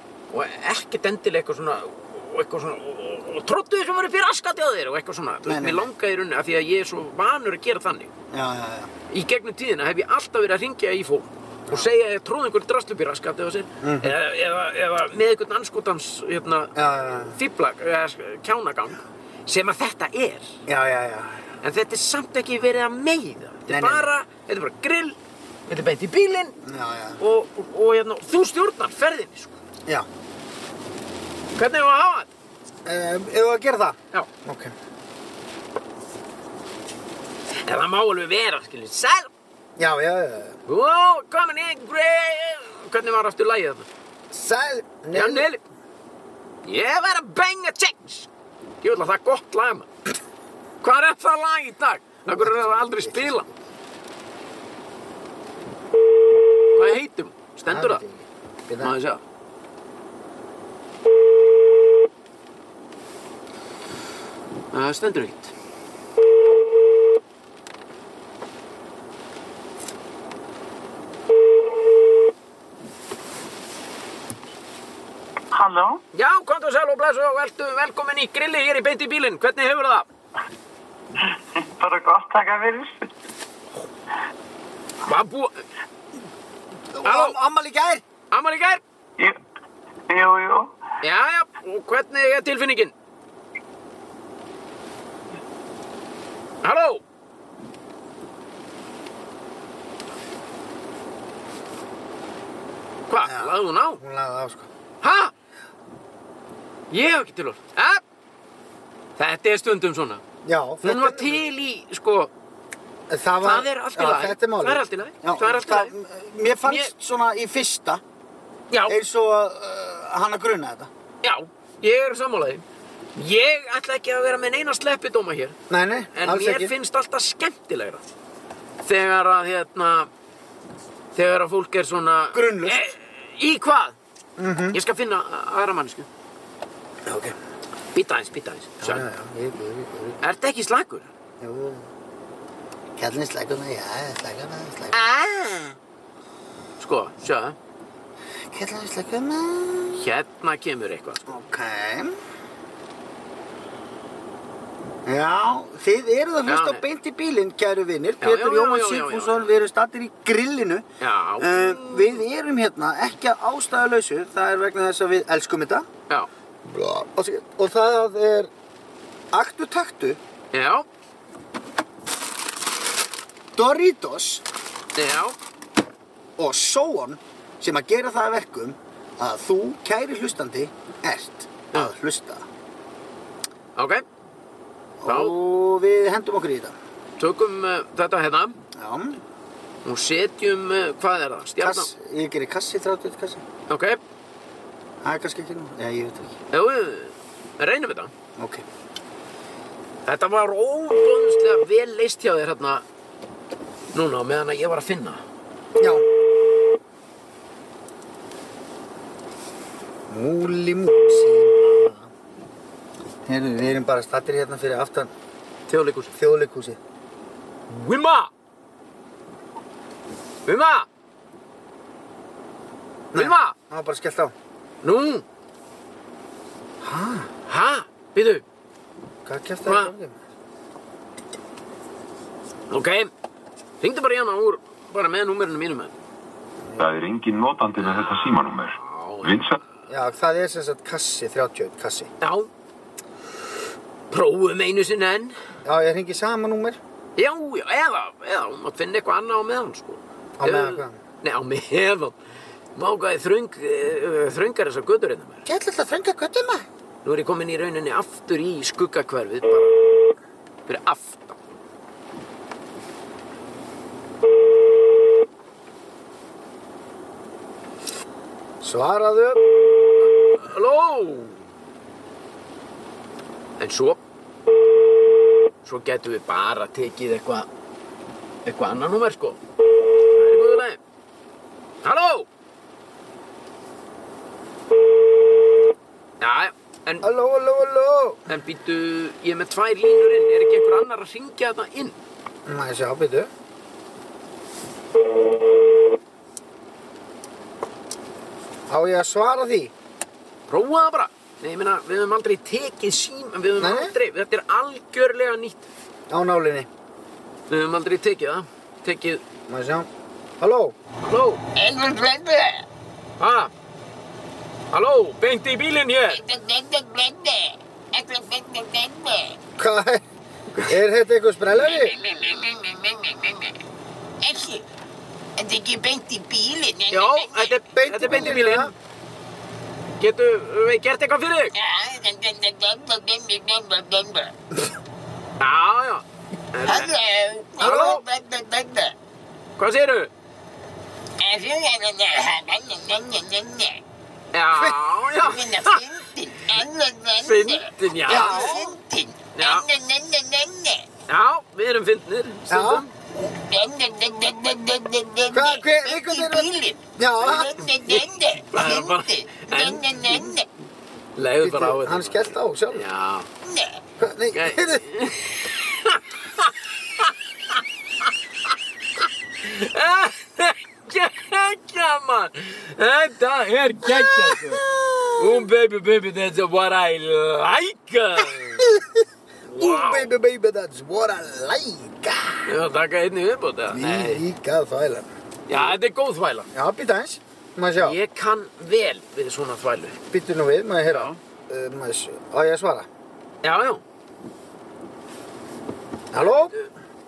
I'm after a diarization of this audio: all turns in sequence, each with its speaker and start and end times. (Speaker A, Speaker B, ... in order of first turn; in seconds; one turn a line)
Speaker A: 0.3-8.1
Speaker B: 5.5-5.9
Speaker B: 8.3-8.9
Speaker A: 9.1-20.6
Speaker B: 13.8-14.2
Speaker B: 16.8-17.4
Speaker B: 20.7-21.4
Speaker A: 21.6-26.6
Speaker B: 23.7-24.1
Speaker B: 26.6-27.2
Speaker A: 27.2-29.6
Speaker A: 31.6-32.3
Speaker B: 32.9-34.7
Speaker A: 37.6-39.3
Speaker B: 39.8-40.6
Speaker A: 40.7-43.9
Speaker B: 44.3-45.5
Speaker A: 45.1-45.6
Speaker A: 46.6-48.3
Speaker A: 48.8-49.9
Speaker A: 50.8-53.5
Speaker B: 52.3-53.5
Speaker A: 56.7-58.0
Speaker B: 57.7-59.0
Speaker A: 58.8-59.2
Speaker A: 64.7-65.5
Speaker C: 75.5-76.0
Speaker A: 76.1-80.1
Speaker C: 81.5-83.1
Speaker A: 85.0-85.6
Speaker B: 86.9-88.0
Speaker A: 87.0-87.4
Speaker A: 88.3-88.8
Speaker C: 90.1-90.8
Speaker A: 91.0-92.9
Speaker A: 96.6-97.0
Speaker A: 103.1-104.0
Speaker B: 103.2-104.7
Speaker A: 105.0-105.3
Speaker A: 106.9-108.0
Speaker A: 109.2-110.2
Speaker B: 110.4-111.4
Speaker A: 110.8-112.3
Speaker B: 113.1-118.0
Speaker A: 113.4-115.9
Speaker A: 116.7-116.9
Speaker A: 118.7-119.0
Speaker B: 118.9-120.9
Speaker A: 121.2-122.6
Speaker A: 123.2-125.6
Speaker B: 125.7-126.7
Speaker A: 126.1-128.0
Speaker A: 128.8-130.1
Speaker A: 131.1-134.0
Speaker B: 132.3-132.9
Speaker B: 134.4-134.8
Speaker A: 134.7-136.1
Speaker B: 137.1-137.4
Speaker A: 137.9-139.1
Speaker B: 138.8-140.2
Speaker A: 140.2-141.1
Speaker B: 141.4-141.9
Speaker B: 143.0-145.0
Speaker A: 144.9-145.7
Speaker A: 146.8-147.6
Speaker B: 148.5-150.1
Speaker A: 149.9-151.3
Speaker B: 151.3-152.2
Speaker B: 155.1-160.9
Speaker A: 156.5-156.8
Speaker A: 158.2-159.5
Speaker A: 161.0-162.2
Speaker B: 161.4-165.9
Speaker B: 166.7-168.5
Speaker B: 169.3-170.2
Speaker A: 170.5-170.9
Speaker B: 173.6-174.4
Speaker A: 175.0-175.4
Speaker B: 176.4-182.4
Speaker A: 183.8-184.1
Speaker B: 185.0-186.8
Speaker A: 185.1-185.3
Speaker A: 187.2-188.6
Speaker B: 188.7-189.2
Speaker A: 189.8-191.9
Speaker B: 191.6-193.4
Speaker A: 193.7-194.0
Speaker B: 195.0-196.3
Speaker A: 196.5-198.1
Speaker B: 198.4-198.6
Speaker A: 200.1-202.8
Speaker A: 203.9-205.2
Speaker B: 205.8-206.1
Speaker B: 210.1-212.1
Speaker B: 213.3-215.1
Speaker A: 215.7-216.2
Speaker B: 216.2-216.8
Speaker A: 217.7-218.3
Speaker A: 220.5-220.9
Speaker B: 223.1-224.3
Speaker A: 223.2-223.6
Speaker A: 224.8-225.2
Speaker B: 226.8-227.3
Speaker A: 227.5-228.4
Speaker B: 229.2-230.2
Speaker A: 229.7-229.9
Speaker A: 232.7-233.1
Speaker A: 233.8-235.9
Speaker D: 236.8-239.6
Speaker A: 237.8-239.4
Speaker B: 239.9-242.1
Speaker A: 242.2-242.5
Speaker A: 244.1-245.3
Speaker B: 245.7-246.8
Speaker A: 247.2-252.2
Speaker B: 250.4-251.0
Speaker A: 252.8-255.4
Speaker B: 255.5-256.7
Speaker A: 257.0-259.8
Speaker A: 260.7-261.4
Speaker B: 268.6-269.5
Speaker A: 270.3-271.4
Speaker A: 273.6-274.0
Speaker A: 275.6-277.5
Speaker A: 278.4-279.4
Speaker A: 280.0-280.8
Speaker A: 281.8-282.3
Speaker A: 286.2-287.1
Speaker B: 287.0-288.3
Speaker A: 288.3-292.0
Speaker B: 292.5-293.3
Speaker B: 298.7-299.7
Speaker A: 300.5-305.7
Speaker B: 303.6-303.9
Speaker B: 306.1-306.7
Speaker A: 307.5-309.2
Speaker B: 309.5-310.8
Speaker A: 311.0-311.4
Speaker E: 311.6-312.6
Speaker A: 313.2-313.5
Speaker A: 314.7-316.2
Speaker E: 316.1-319.4
Speaker B: 319.6-320.0
Speaker B: 320.6-322.0
Speaker E: 321.6-323.6
Speaker E: 324.2-324.6
Speaker E: 325.4-327.6
Speaker A: 326.9-328.7
Speaker B: 327.7-328.7
Speaker A: 330.0-331.5
Speaker E: 331.6-334.3
Speaker A: 335.4-336.9
Speaker E: 336.6-338.9
Speaker A: 337.6-338.0
Speaker B: 337.6-338.0
Speaker A: 339.6-340.1
Speaker E: 341.2-343.8
Speaker A: 344.3-345.8
Speaker E: 345.2-350.9
Speaker A: 347.2-348.6
Speaker B: 348.1-348.8
Speaker A: 349.4-349.7
Speaker A: 351.1-352.9
Speaker B: 352.5-352.9
Speaker E: 353.2-360.5
Speaker B: 355.3-357.6
Speaker A: 358.5-359.8
Speaker A: 361.2-363.3
Speaker B: 361.4-362.9
Speaker E: 363.4-363.8
Speaker B: 364.0-364.8
Speaker A: 364.3-367.6
Speaker A: 369.4-374.6
Speaker B: 373.8-375.5
Speaker A: 375.2-378.7
Speaker B: 378.3-382.5
Speaker A: 379.5-380.1
Speaker A: 382.5-384.2
Speaker B: 383.7-385.8
Speaker A: 385.5-386.5
Speaker B: 386.5-388.0
Speaker A: 387.8-390.0
Speaker B: 390.1-392.9
Speaker A: 390.9-391.2
Speaker A: 393.4-393.8
Speaker B: 396.1-396.5